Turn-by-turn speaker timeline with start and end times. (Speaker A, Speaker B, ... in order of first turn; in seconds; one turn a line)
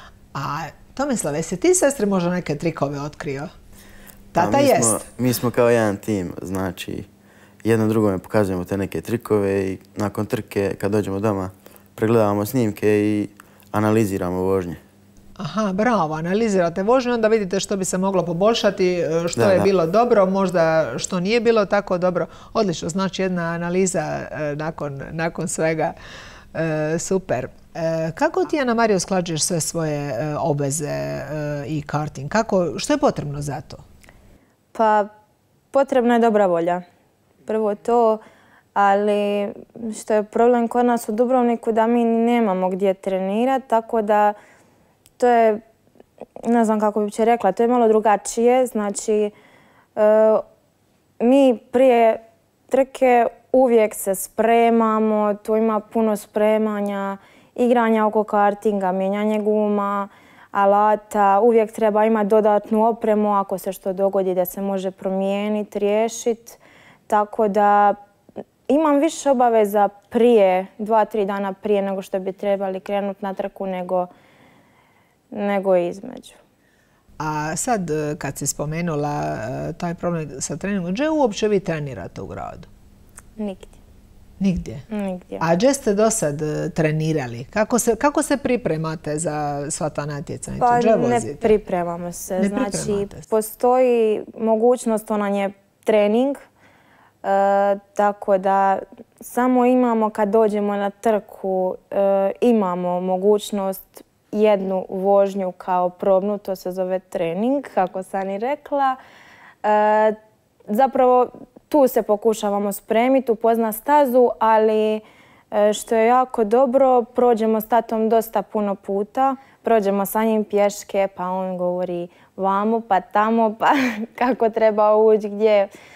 Speaker A: 0.3-3.5
Speaker A: 4.3-5.0
Speaker B: 4.4-7.1
Speaker B: 7.6-14.8
Speaker A: 15.4-25.9
Speaker B: 19.4-19.7
Speaker A: 26.5-33.8
Speaker C: 34.7-35.1
Speaker C: 35.7-36.8
Speaker C: 37.5-38.2
Speaker C: 38.8-44.4
Speaker C: 45.2-45.6
Speaker C: 46.4-49.3
Speaker C: 50.0-50.4
Speaker C: 51.2-68.0
Speaker C: 68.7-74.1
Speaker C: 75.3-76.4
Speaker A: 77.2-82.7
Speaker C: 83.4-83.8
Speaker A: 84.4-84.8
Speaker C: 84.9-85.5
Speaker A: 85.4-91.5
Speaker C: 90.6-96.5
Speaker A: 92.4-93.2
Speaker C: 97.2-109.0
Speaker C: 109.6-125.7